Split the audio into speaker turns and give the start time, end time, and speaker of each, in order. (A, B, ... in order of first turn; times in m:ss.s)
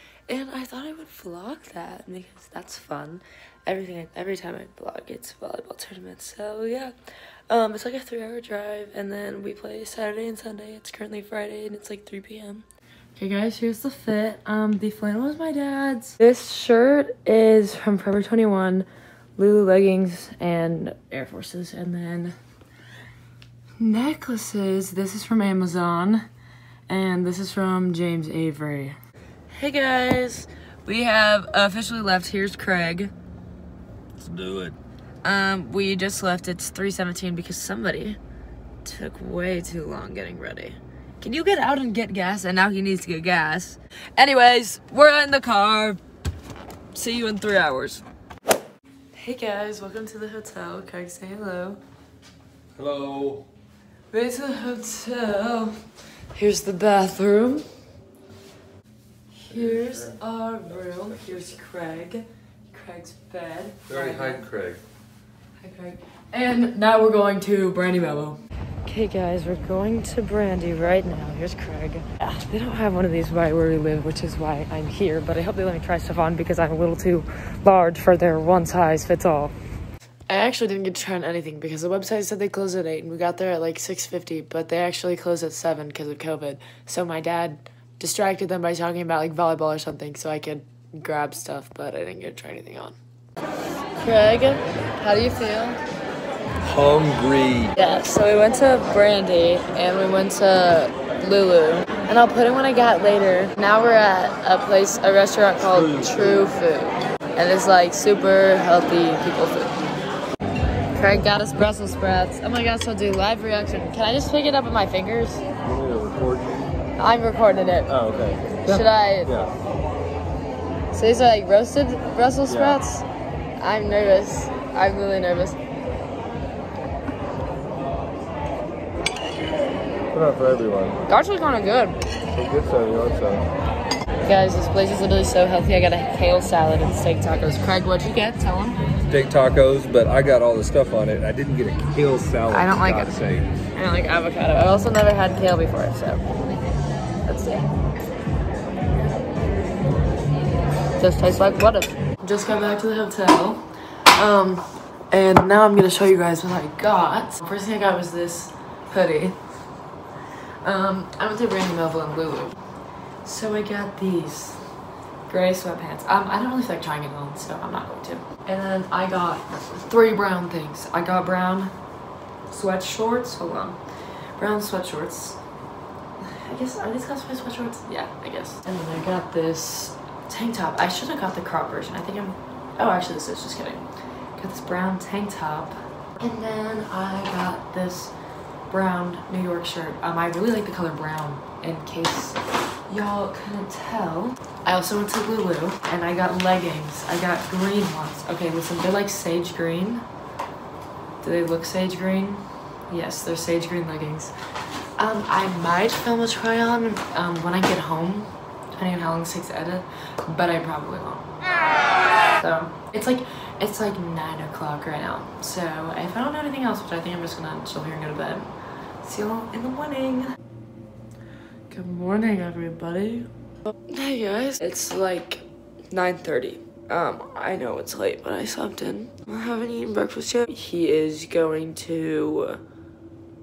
0:00.3-0:06.9 A
0:07.5-0:12.6 A
0:13.2-0:22.4 A
0:23.8-0:26.2 A
0:26.9-0:29.0 A
0:29.5-0:33.1 A
0:34.2-0:34.8 B
0:35.2-0:38.2 A
0:38.8-0:46.0 A
0:46.9-0:48.0 A
0:49.1-0:51.8 A
0:52.7-0:53.4 B
0:54.1-0:55.8 A
0:56.3-0:57.7 A
0:59.3-1:04.4 A
0:59.5-1:00.2 B
1:00.8-1:01.5 B
1:03.9-1:04.8 B
1:05.6-1:19.5 A
1:20.3-1:33.0 A
1:34.0-1:35.8 A
1:36.6-1:37.7 B
1:37.8-1:49.7 A
1:45.6-1:46.4 B
1:50.9-1:55.4 A
1:55.6-1:56.7 B
1:57.0-1:57.9 A
1:57.9-1:59.5 B
1:58.6-1:59.3 A
2:00.9-2:03.0 A
2:02.5-2:02.8 B
2:03.6-2:05.6 A
2:10.1-2:11.0 B
2:11.1-2:11.9 A
2:12.3-2:13.5 B
2:14.2-2:18.8 A
2:19.1-2:23.5 B
2:22.5-2:23.2 A
2:23.7-2:26.2 A
2:27.2-2:27.7 A
2:31.0-2:39.4 A
2:40.6-2:42.6 A
2:43.2-2:44.6 A
2:45.3-2:51.7 A
2:52.5-2:53.8 A
2:54.4-2:55.4 A
2:56.2-3:08.1 A
3:08.7-3:20.0 A
3:21.2-3:24.3 A
3:25.0-3:31.3 A
3:32.3-3:38.5 A
3:39.0-3:40.4 A
3:41.7-3:43.3 A
3:43.9-3:52.6 A